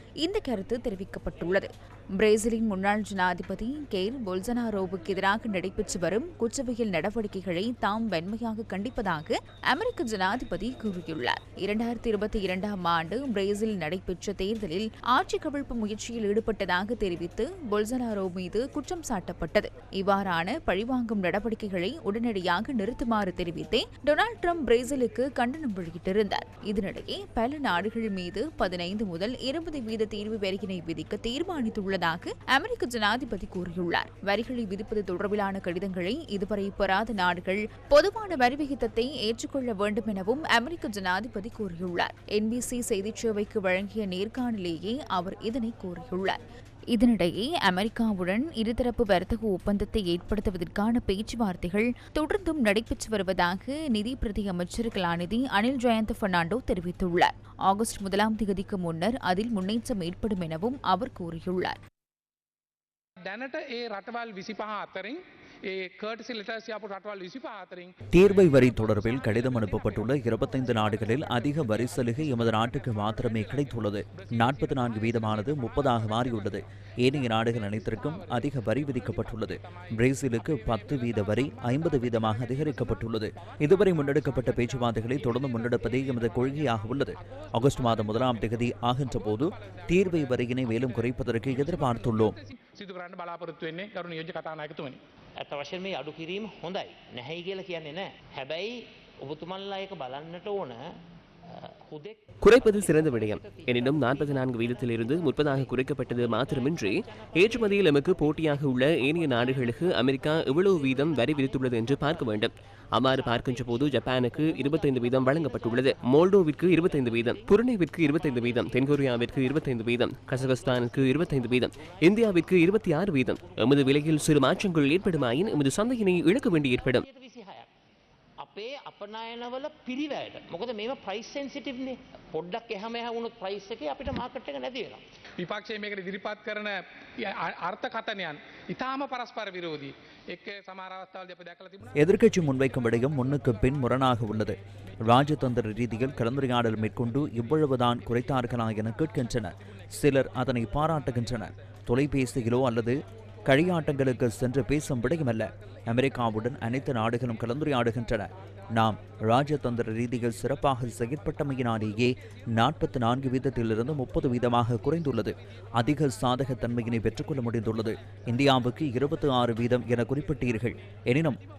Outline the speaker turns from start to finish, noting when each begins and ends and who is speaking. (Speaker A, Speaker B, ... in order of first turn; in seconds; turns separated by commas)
Speaker A: 0.2-46.4, Speaker A: 46.9-61.8, Speaker B: 63.2-68.0, Speaker C: 68.1-92.3, Speaker B: 92.6-95.0, Speaker D: 95.4-100.8, Speaker D: 101.5-106.9, Speaker E: 102.4-127.0, Speaker D: 107.4-108.0, Speaker D: 126.9-127.7, Speaker D: 128.4-135.0, Speaker B: 135.4-141.9, Speaker C: 141.9-171.4